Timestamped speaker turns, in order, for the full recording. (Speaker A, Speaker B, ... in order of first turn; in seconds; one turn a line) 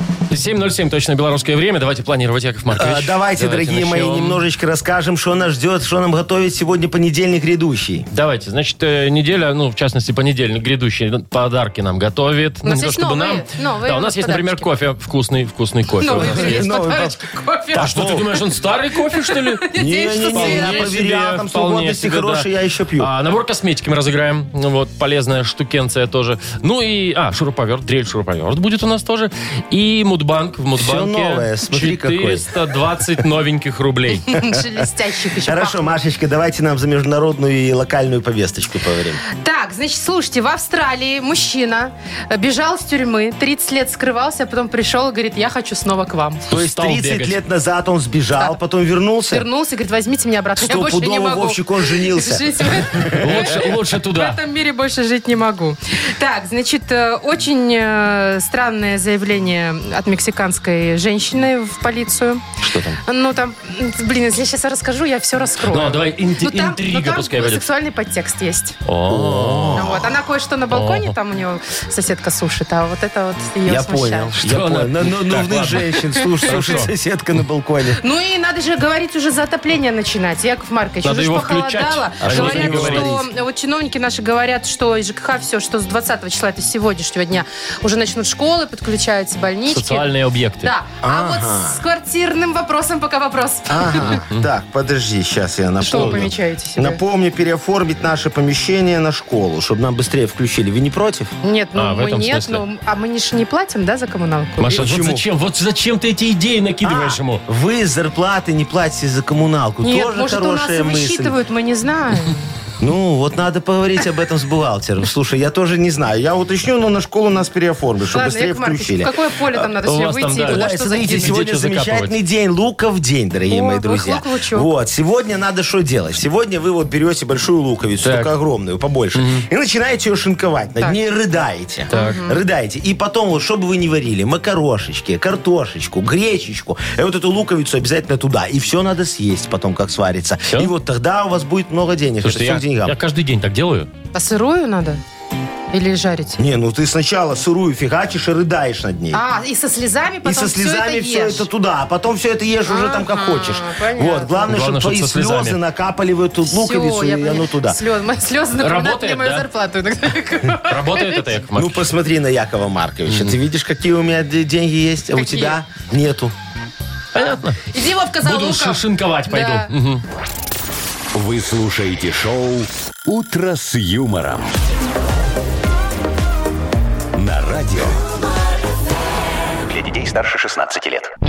Speaker A: 0.3-4.4
Speaker B: 2.7-8.1
Speaker A: 8.1-16.7
Speaker C: 12.6-14.7
Speaker C: 16.0-18.3
Speaker B: 16.1-17.2
Speaker A: 17.8-22.4
Speaker B: 17.8-18.3
Speaker C: 19.1-20.9
Speaker B: 19.8-23.1
Speaker A: 23.0-34.3
Speaker B: 30.8-32.5
Speaker C: 34.3-35.9
Speaker B: 35.4-39.2
Speaker C: 39.3-46.5
Speaker B: 46.5-49.5
Speaker A: 46.5-47.4
Speaker C: 49.3-62.4
Speaker B: 50.6-53.6
Speaker A: 53.1-54.4
Speaker A: 62.6-63.0
Speaker C: 63.0-68.8
Speaker A: 65.7-67.7
Speaker A: 68.9-69.8
Speaker B: 69.1-70.1
Speaker C: 69.7-74.3
Speaker A: 70.7-71.2
Speaker B: 73.7-78.0
Speaker A: 74.3-76.9
Speaker C: 78.0-90.1
Speaker A: 81.0-83.1
Speaker B: 82.2-83.3
Speaker A: 89.7-90.7
Speaker C: 90.6-94.1
Speaker B: 91.0-91.8
Speaker B: 93.7-101.3
Speaker A: 94.0-94.5
Speaker C: 95.8-97.0
Speaker A: 95.9-96.2
Speaker C: 101.4-104.7
Speaker A: 101.8-102.6
Speaker A: 104.6-107.4
Speaker B: 104.7-105.2
Speaker B: 106.8-111.3
Speaker C: 109.8-112.5
Speaker B: 112.8-119.7
Speaker C: 118.1-121.3
Speaker A: 119.8-122.2
Speaker B: 120.4-143.0
Speaker C: 123.5-124.7
Speaker A: 128.0-128.3
Speaker A: 129.1-129.4
Speaker C: 131.9-132.4
Speaker A: 131.9-132.2
Speaker A: 142.2-143.9
Speaker C: 144.1-145.0
Speaker C: 145.7-146.4
Speaker B: 146.4-149.2
Speaker C: 149.1-151.4
Speaker B: 150.2-157.8
Speaker C: 152.7-154.5
Speaker A: 154.5-155.6
Speaker C: 156.4-161.3
Speaker A: 158.6-159.4
Speaker A: 160.7-161.9
Speaker B: 161.5-166.3
Speaker A: 163.1-163.4
Speaker C: 165.1-165.6
Speaker A: 167.1-167.6
Speaker C: 167.2-169.7
Speaker A: 168.2-170.0
Speaker D: 171.1-174.5
Speaker D: 177.1-178.0
Speaker D: 179.7-181.1